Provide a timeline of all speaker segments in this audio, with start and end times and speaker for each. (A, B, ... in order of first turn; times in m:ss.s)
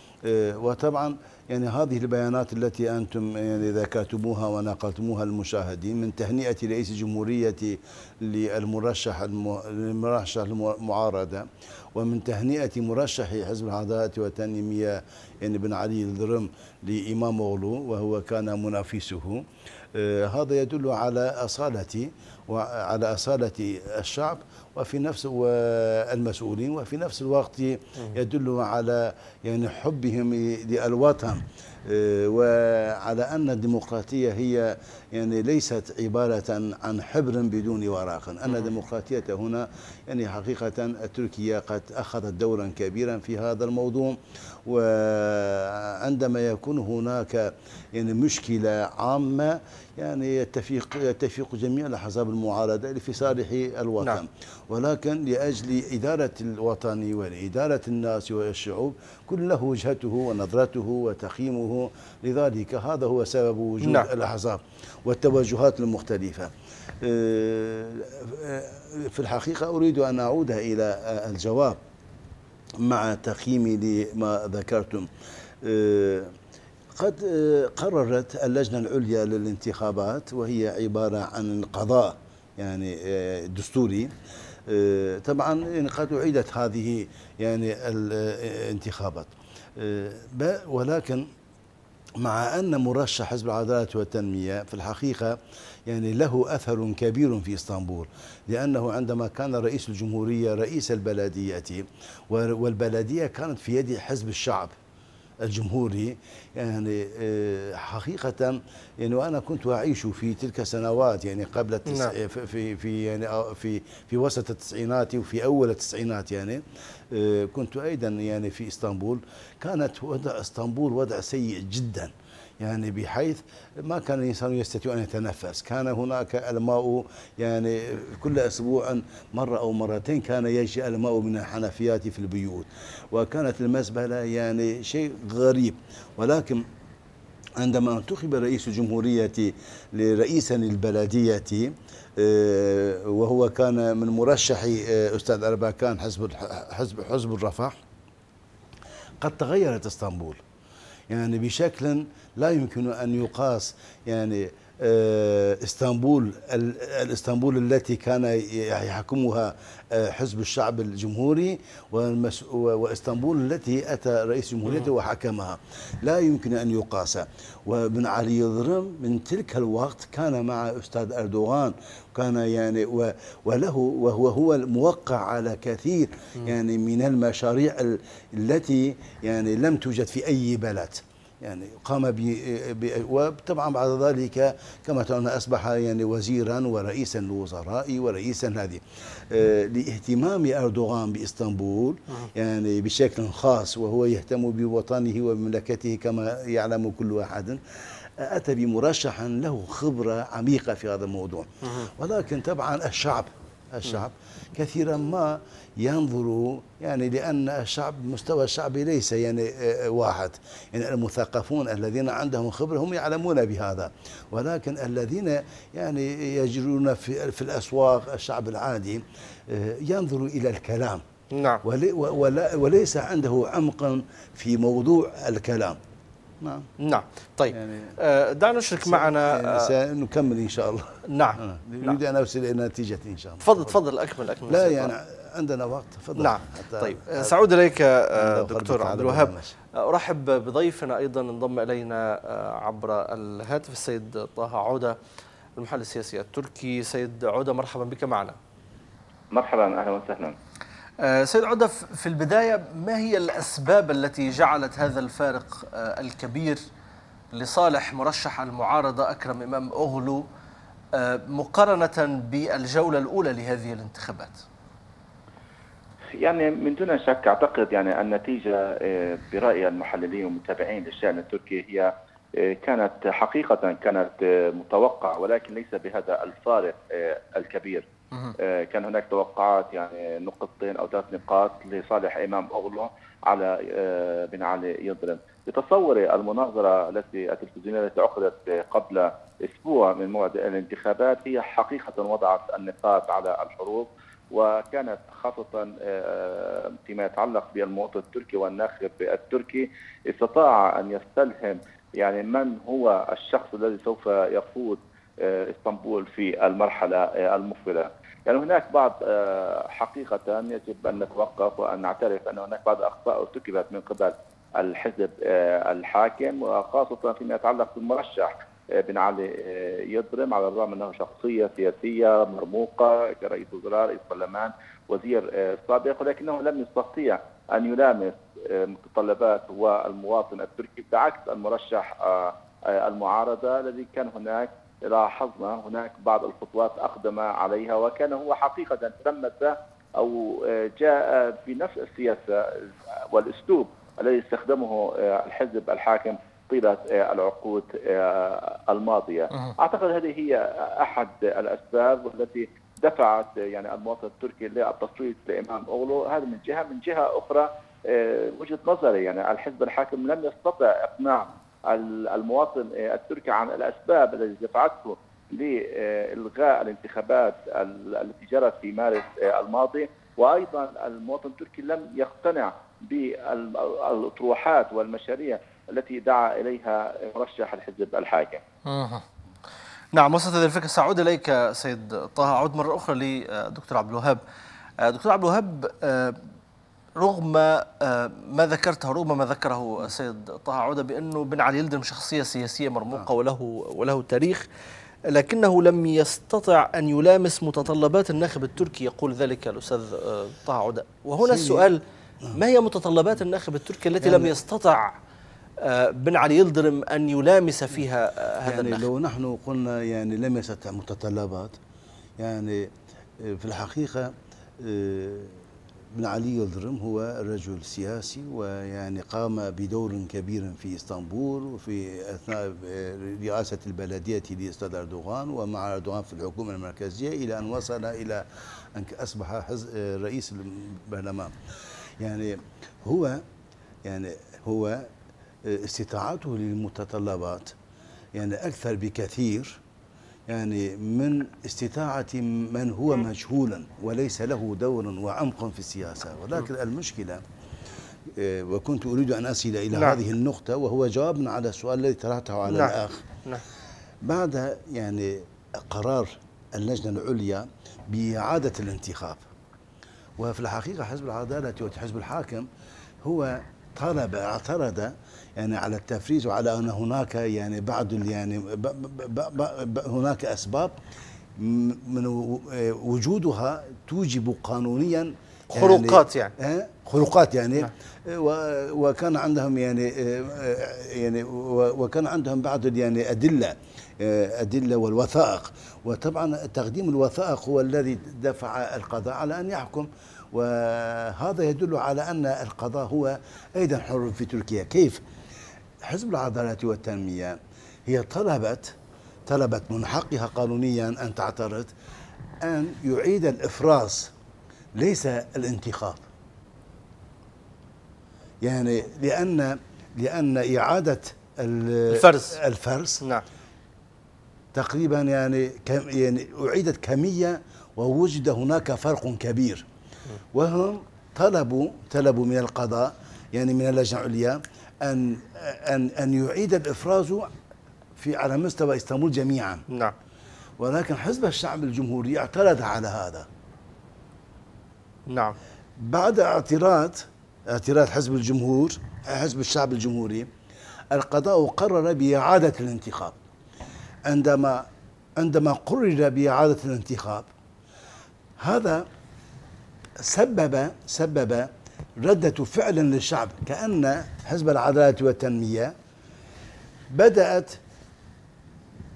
0:00.2-1:11.8 A
1:03.8-1:04.1 B
1:12.8-1:15.1 A
1:15.6-1:16.3 A
1:16.9-1:24.1 A
1:24.7-1:31.2 A
1:32.2-1:44.7 A
1:45.4-2:16.6 A
1:51.9-1:52.1 B
2:17.6-2:27.8 A
2:29.2-2:30.4 A
2:31.1-3:17.6 A
3:18.2-3:41.0 A
3:41.3-3:41.6 B
3:41.6-3:45.8 A
3:46.4-3:46.7 A
3:46.8-3:49.7 B
3:47.5-3:47.9 A
3:48.8-3:53.8 A
3:51.1-3:52.0 B
3:53.4-3:54.9 B
3:54.5-3:57.3 A
3:56.2-4:05.0 B
3:58.2-3:59.5 A
4:05.6-4:08.4 B
4:09.3-4:10.3 C
4:11.0-4:16.6 B
4:17.3-4:20.2 B
4:20.9-4:24.4 B
4:26.2-4:37.8 C
4:38.4-6:18.4 C
6:18.7-6:19.0 B
6:19.9-6:24.2 B
6:24.8-6:26.2 B
6:27.0-6:34.4 B
6:35.1-6:41.8 B
6:41.2-6:41.7 A
6:42.3-6:44.9 B
6:44.0-6:44.3 A
6:45.6-6:48.8 B
6:48.4-6:51.6 A
6:52.2-6:55.4 A
6:55.9-7:11.3 A
7:12.0-7:13.2 A
7:13.8-7:14.9 A
7:15.4-7:17.5 A
7:18.1-7:19.6 A
7:20.3-7:27.2 A
7:28.1-7:33.0 A
7:29.7-7:30.0 B
7:32.5-7:33.4 B
7:34.0-7:39.2 A
7:40.2-7:42.5 A
7:43.0-7:50.7 A
7:51.4-8:15.0 A
7:55.5-7:56.3 B
8:15.8-8:18.7 A
8:19.2-8:21.7 A
8:22.4-8:24.1 A
8:24.8-8:26.0 A
8:28.4-8:33.0 A
8:31.9-8:32.4 B
8:34.5-8:39.6 A
8:40.3-8:47.3 A
8:48.0-8:49.6 A
8:50.6-8:53.3 A
8:55.1-8:55.4 B
8:55.8-9:00.3 A
9:00.9-9:03.2 A
9:04.0-9:04.6 A
9:05.2-9:07.3 A
9:08.4-9:08.8 A
9:10.0-9:11.5 A
9:12.0-9:15.7 A
9:16.9-9:17.6 A